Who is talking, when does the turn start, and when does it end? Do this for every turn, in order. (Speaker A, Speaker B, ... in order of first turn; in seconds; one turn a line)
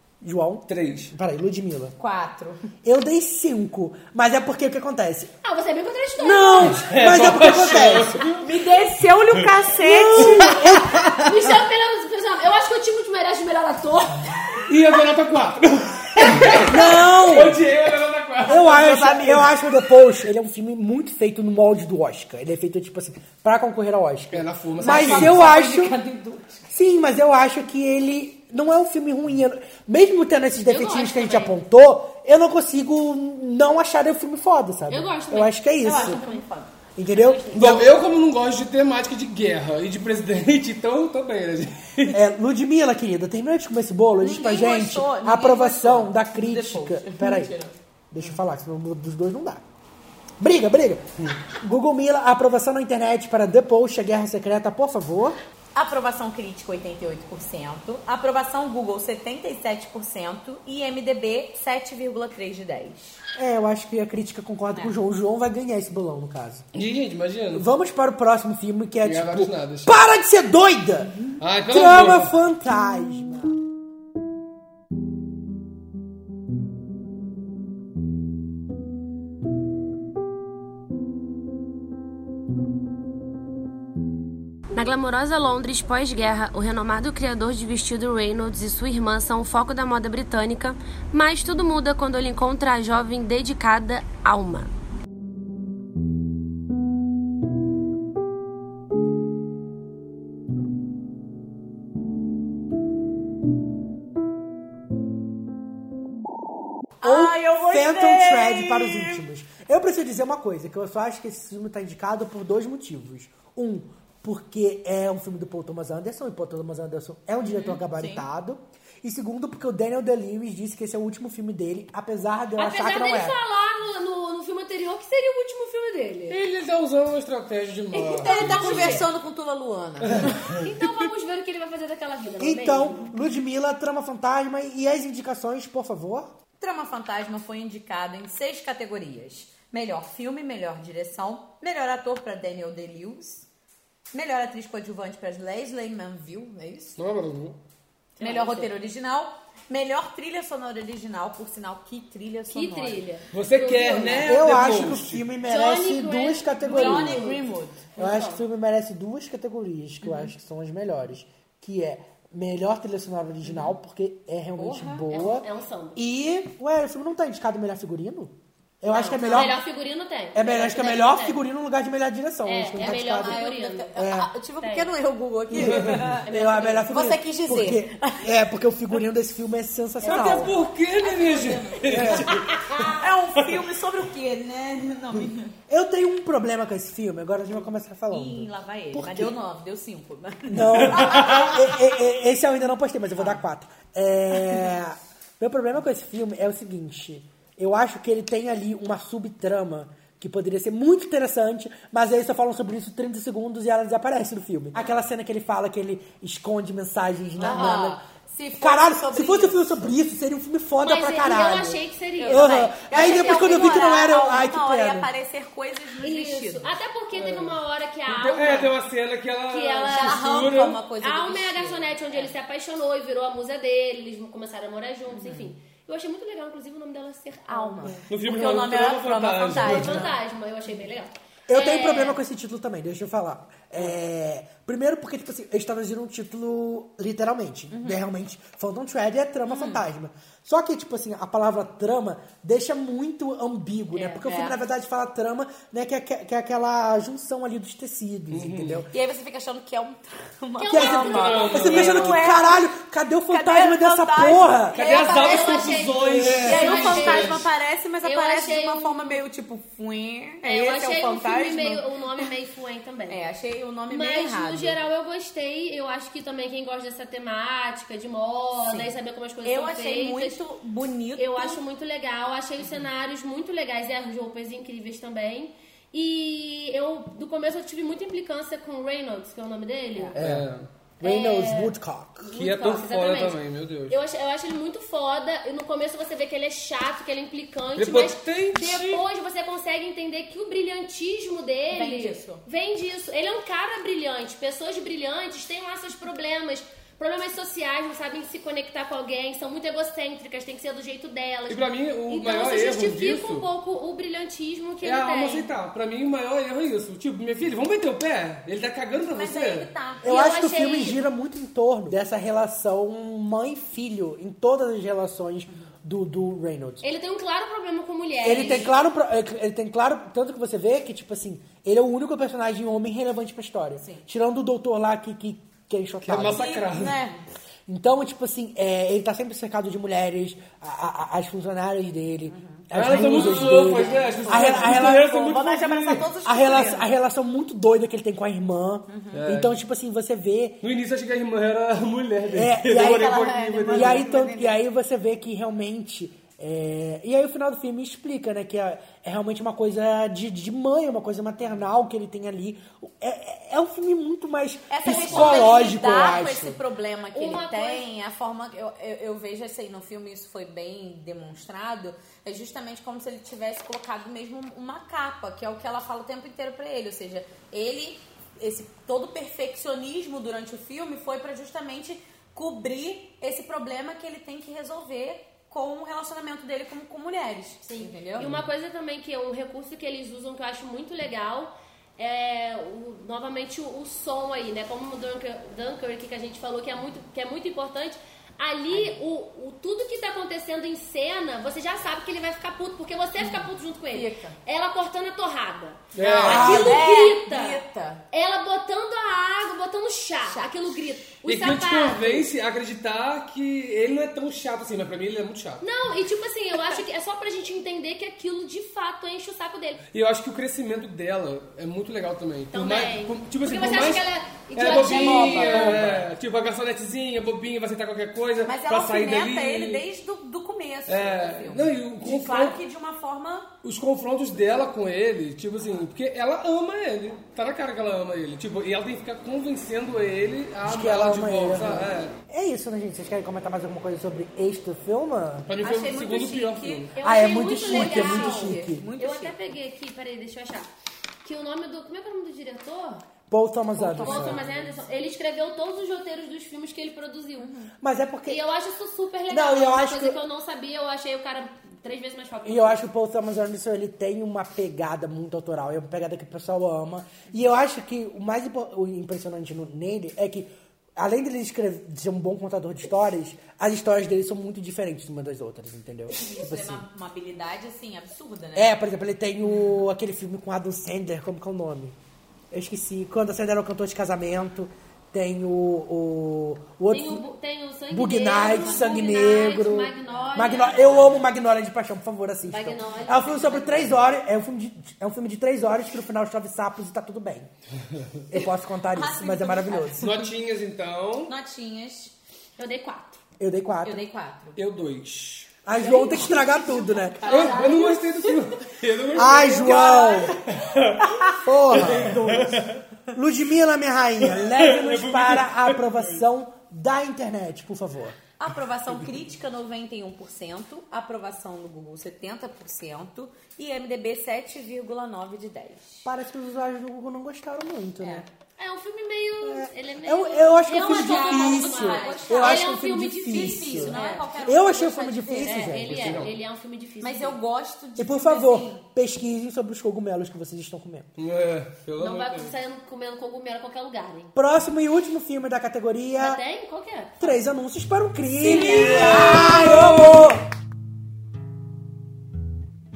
Speaker A: 0.2-1.9
Speaker B: 0.7-1.1
Speaker C: 2.0-2.6
Speaker A: 2.8-5.3
Speaker D: 5.4-6.8
Speaker A: 6.2-8.2
Speaker B: 6.6-8.4
Speaker C: 8.4-10.5
Speaker A: 9.8-11.3
Speaker B: 10.2-10.5
Speaker D: 11.2-14.4
Speaker B: 14.7-19.1
Speaker A: 16.6-17.6
Speaker A: 18.4-26.0
Speaker C: 18.7-19.4
Speaker B: 24.3-25.4
Speaker C: 24.8-26.7
Speaker A: 26.7-36.2
Speaker D: 30.7-31.6
Speaker D: 34.9-36.4
Speaker C: 35.8-36.7
Speaker A: 37.0-37.9
Speaker D: 37.1-37.8
Speaker B: 37.5-42.2
Speaker A: 42.1-47.5
Speaker C: 44.2-47.8
Speaker A: 48.1-49.6
Speaker A: 50.4-55.4
Speaker C: 55.8-63.2
Speaker A: 63.4-66.7
Speaker B: 66.7-67.7
Speaker A: 67.5-73.6
Speaker B: 69.0-69.9
Speaker B: 71.4-72.3
Speaker E: 84.7-94.7
Speaker C: 107.0-109.2
Speaker A: 107.0-123.4
Speaker C: 117.4-118.3
Speaker D: 122.6-126.4
Speaker B: 126.3-129.1
Speaker C: 127.9-130.3
Speaker D: 128.1-129.0
Speaker B: 130.1-130.7
Speaker D: 130.6-133.1
Speaker A: 132.4-136.3
Speaker C: 136.6-143.5
Speaker C: 144.1-147.0
Speaker B: 147.0-147.6
Speaker D: 148.2-148.7
Speaker C: 148.2-153.0
Speaker D: 152.5-154.4
Speaker B: 153.3-155.2
Speaker A: 154.2-157.4
Speaker D: 155.5-158.4
Speaker C: 156.7-157.9
Speaker A: 158.0-169.6
Speaker C: 164.6-165.1
Speaker D: 165.1-166.0
Speaker D: 168.9-171.4
Speaker C: 169.2-169.5
Speaker A: 170.3-173.4
Speaker D: 172.5-173.9
Speaker C: 172.8-176.2
Speaker A: 174.0-174.3
Speaker D: 174.6-174.9
Speaker A: 175.5-180.5
Speaker B: 175.6-176.0
Speaker D: 176.3-176.9
Speaker C: 176.9-178.3
Speaker B: 180.0-182.6
Speaker D: 180.1-180.3
Speaker C: 180.9-182.3
Speaker A: 181.9-182.4
Speaker D: 182.5-183.0
Speaker C: 182.9-185.5
Speaker A: 185.7-189.3
Speaker C: 188.1-191.6
Speaker A: 190.5-208.0
Speaker C: 207.4-209.9
Speaker A: 208.6-215.1
Speaker D: 210.8-213.9
Speaker C: 212.2-216.7
Speaker D: 216.0-218.8
Speaker B: 217.1-220.8
Speaker D: 219.5-220.3
Speaker C: 219.9-222.3
Speaker D: 221.0-228.0
Speaker C: 225.1-225.5
Speaker C: 227.5-230.2
Speaker B: 228.1-230.1
Speaker D: 229.5-232.2
Speaker A: 231.5-248.9
Speaker C: 237.7-238.0
Speaker C: 239.5-239.8
Speaker C: 244.1-244.6
Speaker B: 248.3-248.8
Speaker C: 248.9-252.7
Speaker D: 250.6-251.8
Speaker A: 250.7-254.8
Speaker B: 251.1-252.2
Speaker C: 253.3-261.8
Speaker B: 254.7-257.4
Speaker D: 254.8-257.5
Speaker A: 256.2-256.8
Speaker D: 258.0-259.2
Speaker D: 260.4-263.2
Speaker C: 263.1-264.8
Speaker D: 263.9-270.4
Speaker C: 268.6-268.9
Speaker C: 269.4-271.6
Speaker D: 271.2-280.2
Speaker A: 280.2-280.5
Speaker B: 280.2-280.7
Speaker A: 281.0-282.3
Speaker D: 281.0-305.5
Speaker B: 282.4-284.0
Speaker B: 287.8-289.0
Speaker C: 291.7-292.4
Speaker B: 301.5-303.4
Speaker B: 304.8-309.7
Speaker C: 309.1-310.2
Speaker A: 310.0-316.8
Speaker D: 310.1-311.0
Speaker D: 316.8-318.7
Speaker A: 318.2-326.6
Speaker C: 323.8-324.1
Speaker B: 326.0-327.0
Speaker C: 326.3-327.2
Speaker A: 327.7-335.4
Speaker C: 332.3-336.9
Speaker B: 332.7-336.1
Speaker A: 336.2-340.6
Speaker C: 338.9-339.2
Speaker B: 339.1-339.6
Speaker B: 340.6-344.1
Speaker A: 342.3-356.6
Speaker C: 342.7-344.6
Speaker C: 354.7-378.4
Speaker B: 355.0-355.3
Speaker D: 357.1-357.9
Speaker D: 377.7-402.3
Speaker C: 388.7-389.0
Speaker C: 393.2-394.4
Speaker B: 395.9-396.7
Speaker A: 396.2-396.9
Speaker C: 396.3-398.0
Speaker B: 401.2-405.6
Speaker D: 405.6-409.8
Speaker B: 409.9-419.8
Speaker D: 412.5-415.8
Speaker C: 414.6-416.0
Speaker C: 418.4-423.5
Speaker B: 420.9-422.6
Speaker B: 423.6-432.1
Speaker A: 430.6-435.5
Speaker B: 435.5-436.9
Speaker C: 435.6-436.9
Speaker D: 437.0-440.7
Speaker A: 437.0-438.9
Speaker C: 437.6-439.4
Speaker D: 441.2-443.1
Speaker A: 443.3-444.4
Speaker C: 443.8-444.8
Speaker D: 443.9-447.5
Speaker C: 447.4-447.7
Speaker A: 447.8-448.4
Speaker D: 448.3-452.8
Speaker A: 449.3-450.2
Speaker A: 452.4-466.8
Speaker C: 466.1-468.8
Speaker A: 468.6-472.0
Speaker A: 472.5-477.2
Speaker D: 476.9-481.2
Speaker A: 477.9-487.5
Speaker C: 478.4-479.5
Speaker D: 482.5-484.0
Speaker A: 488.3-490.2
Speaker C: 488.9-490.2
Speaker B: 490.0-491.3
Speaker C: 491.3-492.1
Speaker D: 492.6-493.2
Speaker A: 493.4-494.0
Speaker C: 493.8-494.6
Speaker B: 494.6-495.5
Speaker A: 495.6-497.5
Speaker C: 495.8-497.9
Speaker D: 497.2-498.3
Speaker B: 497.3-501.1
Speaker A: 499.1-500.4
Speaker C: 499.4-500.1
Speaker A: 501.4-502.5
Speaker B: 501.7-502.8
Speaker C: 502.0-502.6
Speaker A: 503.1-508.2
Speaker B: 504.2-506.2
Speaker C: 508.4-516.1
Speaker A: 516.0-518.3
Speaker C: 518.0-518.2
Speaker D: 518.6-524.2
Speaker A: 519.4-526.3
Speaker C: 520.8-522.7
Speaker C: 523.3-525.8
Speaker D: 525.5-527.4
Speaker B: 525.9-526.3
Speaker C: 527.0-528.8
Speaker A: 528.0-531.1
Speaker B: 531.2-532.5
Speaker D: 532.0-534.3
Speaker A: 534.4-536.4
Speaker D: 536.2-537.4
Speaker A: 537.2-540.4
Speaker C: 538.5-540.1
Speaker B: 538.8-539.1
Speaker D: 538.9-539.6